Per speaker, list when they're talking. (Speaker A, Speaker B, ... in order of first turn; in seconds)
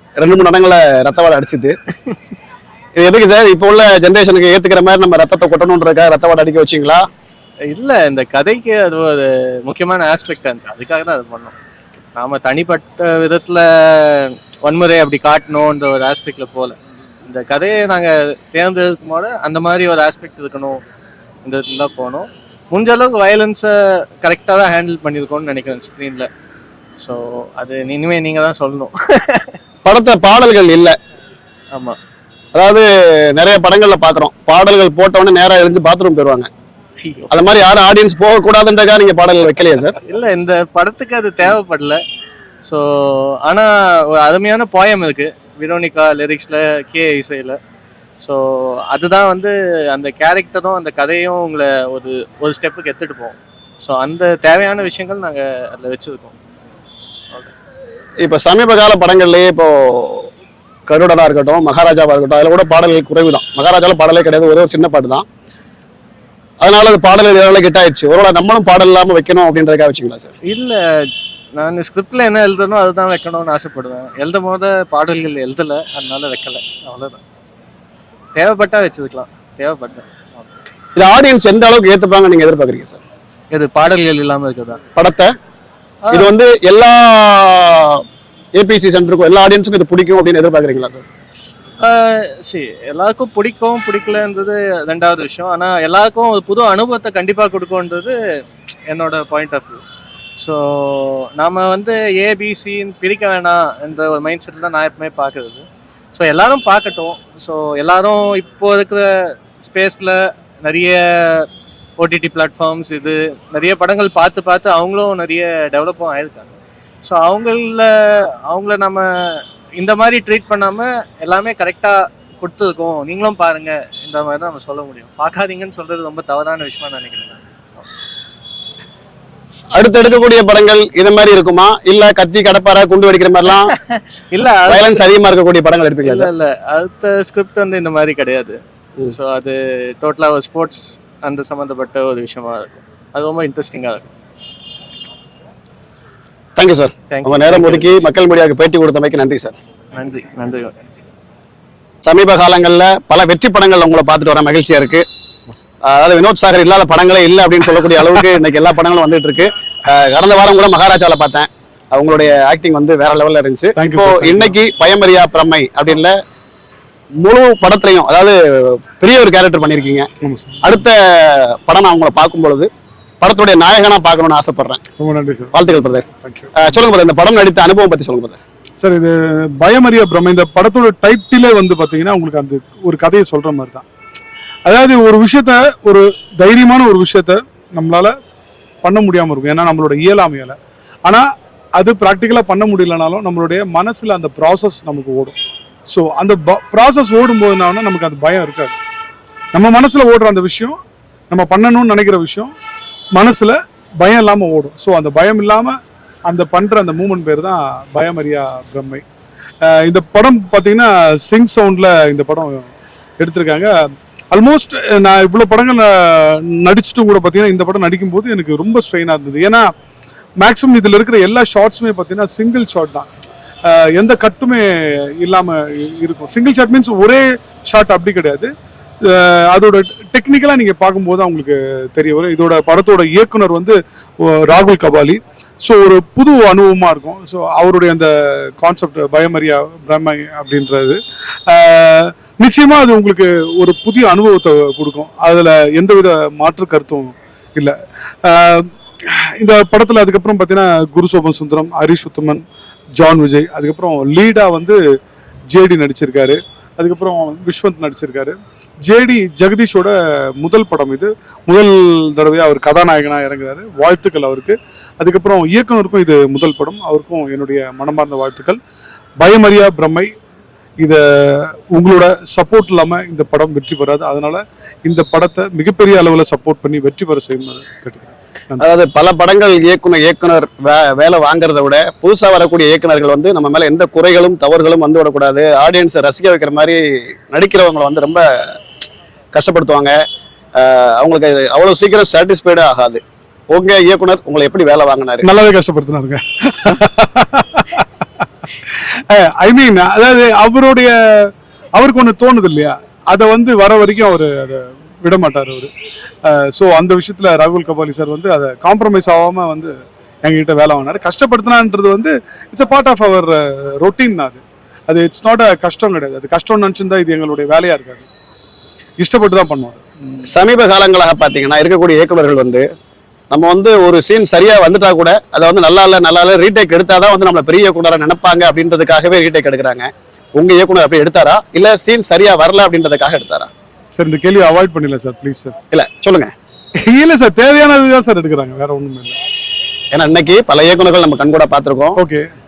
Speaker A: 0.2-1.8, 3.0-7.1, 29.9-31.0, 32.5-36.5, 37.3-39.9, 58.2-60.3, 60.9-65.3, 66.6-70.3, 81.0-83.0, 85.0-85.3, 86.1-88.0, 88.6-91.0, 129.8-133.7, 134.7-136.3, 146.6-149.6, 152.0-155.1, 155.9-166.2, 167.2-170.1, 170.6-172.7, 173.2-174.8, 175.5-176.1, 176.6-178.4, 278.6-288.6, 289.3-290.0, 290.6-295.3, 320.3-322.6, 323.3-333.5, 335.7-336.3, 339.9-342.0
Speaker B: 7.7-11.6, 12.2-20.8, 21.4-26.3, 27.0-29.5, 40.1-42.0, 42.6-47.6, 48.2-56.4, 70.5-70.8, 71.6-77.2, 78.3-80.5, 83.5-84.8, 86.0-86.3, 91.8-98.2, 98.9-99.8, 100.4-105.6, 106.2-109.0, 109.6-111.5, 112.0-117.9, 118.5-127.9, 134.3-135.0, 136.0-138.6, 139.1-144.1, 147.1-148.0, 149.9-151.0
Speaker C: 163.8-164.6, 170.2-170.6, 175.0-175.6, 176.1-176.7, 178.8-183.8, 184.7-188.1, 188.8-191.2, 191.8-195.4, 195.9-198.8, 199.5-200.8, 201.3-202.5, 203.2-205.8, 206.3-209.0, 209.6-212.7, 213.2-213.7, 214.3-219.7, 220.4-223.1, 223.7-228.5, 229.0-252.4, 253.0-254.8, 255.5-268.6, 269.2-270.1, 270.8-278.6, 295.2-297.9, 299.1-305.7, 306.2-318.1, 319.0-319.8, 334.0-335.6, 336.8-339.2, 342.0-342.3